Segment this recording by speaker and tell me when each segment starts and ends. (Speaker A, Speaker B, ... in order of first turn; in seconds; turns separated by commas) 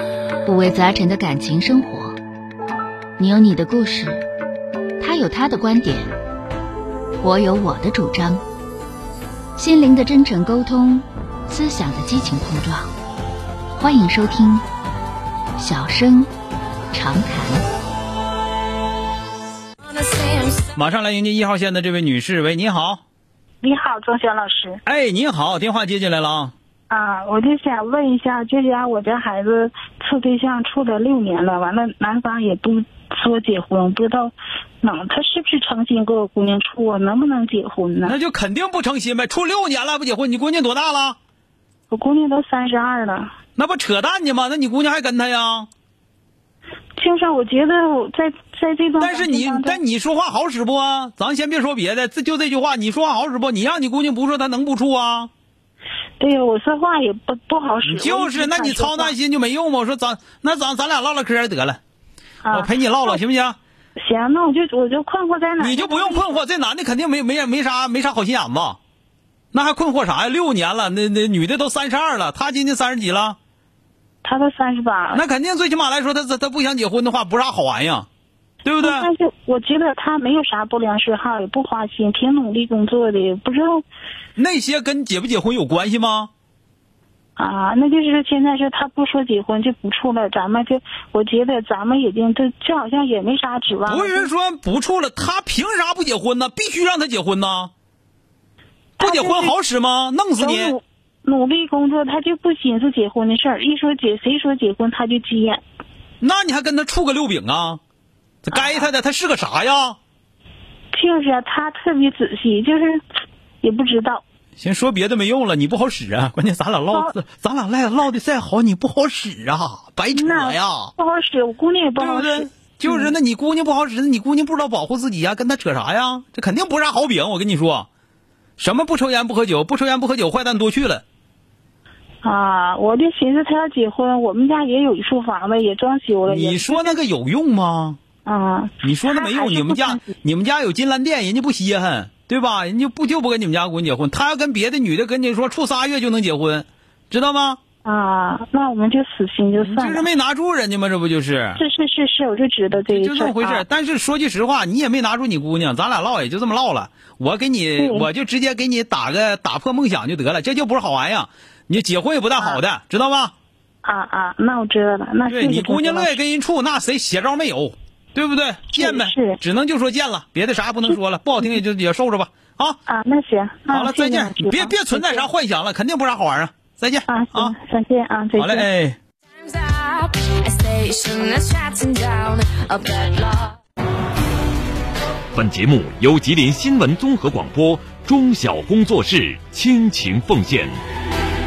Speaker A: 0.5-2.1, Speaker A: 3.2-4.2, Speaker A: 5.0-6.1, Speaker A: 7.2-8.4, Speaker A: 9.6-12.9, Speaker A: 13.8-14.6, Speaker A: 15.6-16.3, Speaker A: 16.9-17.6, Speaker B: 19.9-20.6, Speaker C: 20.7-23.0, Speaker D: 23.6-24.8, Speaker C: 24.9-26.5, Speaker D: 26.9-38.1, Speaker C: 38.0-41.2, Speaker D: 41.9-43.3, Speaker C: 43.5-45.7, Speaker D: 47.0-49.8, Speaker C: 49.0-55.3, Speaker D: 56.2-59.1, Speaker C: 57.8-61.8, Speaker D: 62.4-63.2, Speaker C: 62.5-63.6, Speaker D: 64.0-66.4, Speaker C: 65.6-68.8, Speaker C: 69.5-73.4, Speaker D: 74.2-75.2, Speaker C: 75.1-78.1, Speaker C: 78.6-79.1, Speaker D: 78.8-83.8, Speaker C: 84.3-86.3, Speaker D: 87.4-94.3, Speaker C: 93.8-97.7, Speaker D: 99.0-99.5, Speaker C: 99.0-100.7, Speaker D: 100.4-105.6, Speaker C: 106.2-107.8, Speaker C: 108.4-110.0, Speaker D: 108.5-108.8, Speaker D: 110.9-113.0, Speaker D: 113.6-114.2, Speaker C: 114.6-120.9, Speaker D: 120.1-123.1, Speaker C: 122.0-127.9, Speaker C: 128.6-131.0, Speaker D: 132.2-137.0, Speaker C: 136.2-138.0, Speaker D: 138.2-140.1, Speaker C: 138.8-147.6, Speaker D: 147.8-150.1, Speaker C: 149.5-151.6, Speaker D: 151.6-153.6, Speaker C: 152.9-163.3, Speaker D: 157.8-158.1, Speaker D: 163.8-166.2, Speaker C: 165.3-172.8, Speaker D: 168.7-169.4, Speaker D: 172.9-175.3, Speaker C: 173.7-177.5, Speaker D: 177.1-178.7, Speaker C: 178.4-179.0, Speaker B: 179.5-183.6, Speaker E: 185.3-190.8